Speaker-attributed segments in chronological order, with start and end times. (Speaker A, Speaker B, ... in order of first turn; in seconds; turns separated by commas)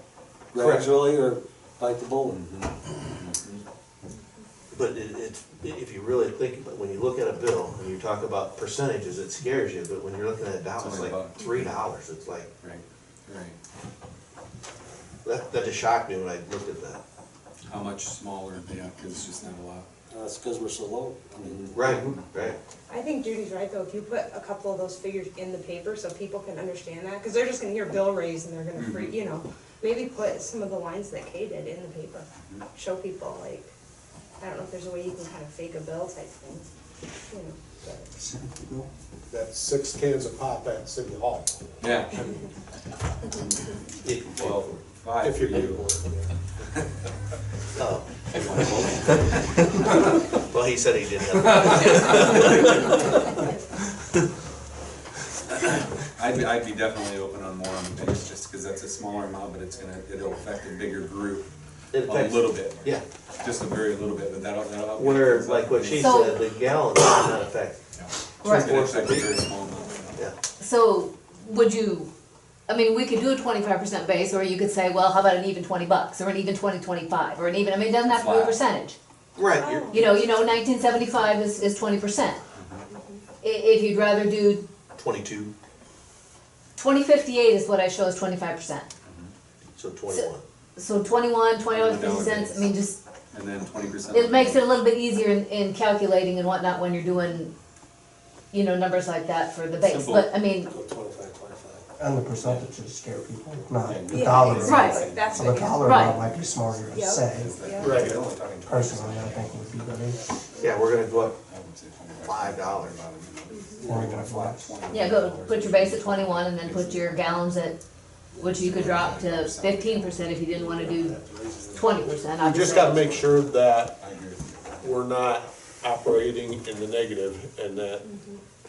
Speaker A: 0.5-2.4, Speaker B: 0.6-0.9, Speaker C: 2.3-3.6, Speaker B: 4.7-12.5, Speaker C: 10.8-11.8, Speaker C: 12.6-13.6, Speaker B: 15.2-17.0, Speaker C: 17.7-19.9, Speaker A: 20.1-21.8, Speaker C: 21.4-22.5, Speaker B: 21.7-22.6, Speaker D: 22.9-33.7, Speaker C: 28.8-29.2, Speaker D: 34.4-36.7, Speaker D: 37.3-38.1, Speaker E: 38.5-38.9, Speaker F: 39.3-41.7, Speaker C: 41.8-42.3, Speaker B: 44.0-44.8, Speaker C: 44.4-46.0, Speaker F: 45.2-46.3, Speaker B: 47.8-48.1, Speaker C: 48.3-49.8, Speaker B: 50.4-53.3, Speaker C: 51.5-52.8, Speaker C: 56.1-61.5, Speaker B: 61.9-63.0, Speaker C: 62.0-66.3, Speaker B: 64.9-67.8, Speaker G: 65.9-66.4, Speaker C: 67.9-70.2, Speaker G: 68.4-68.7, Speaker B: 68.5-69.4, Speaker G: 70.6-72.1, Speaker G: 72.7-79.0, Speaker C: 78.0-78.7, Speaker B: 79.3-80.0, Speaker D: 79.6-80.2, Speaker G: 79.9-82.4, Speaker C: 82.5-82.8, Speaker D: 82.9-83.2, Speaker G: 83.4-84.7, Speaker B: 85.0-85.5, Speaker G: 86.8-88.9, Speaker C: 89.0-89.3, Speaker B: 89.8-90.4, Speaker G: 90.1-93.0, Speaker C: 91.7-92.7, Speaker C: 93.3-94.7, Speaker G: 94.1-97.5, Speaker G: 98.5-100.7, Speaker C: 99.8-100.2, Speaker A: 100.7-101.9, Speaker E: 102.0-107.5, Speaker C: 102.4-102.7, Speaker C: 103.8-109.7, Speaker D: 104.1-105.8, Speaker G: 104.6-105.0, Speaker G: 105.8-106.2, Speaker D: 107.0-108.0, Speaker F: 107.8-108.2, Speaker E: 108.6-110.2, Speaker D: 110.6-110.9, Speaker B: 110.6-111.3, Speaker C: 111.0-117.5, Speaker B: 112.2-113.0, Speaker D: 113.5-113.8, Speaker E: 113.8-114.9, Speaker G: 114.9-117.8, Speaker A: 118.3-119.0, Speaker G: 118.4-123.2, Speaker C: 118.6-120.4, Speaker A: 120.5-122.2, Speaker F: 122.4-124.0, Speaker C: 122.8-124.9, Speaker F: 124.8-128.1, Speaker D: 128.0-128.4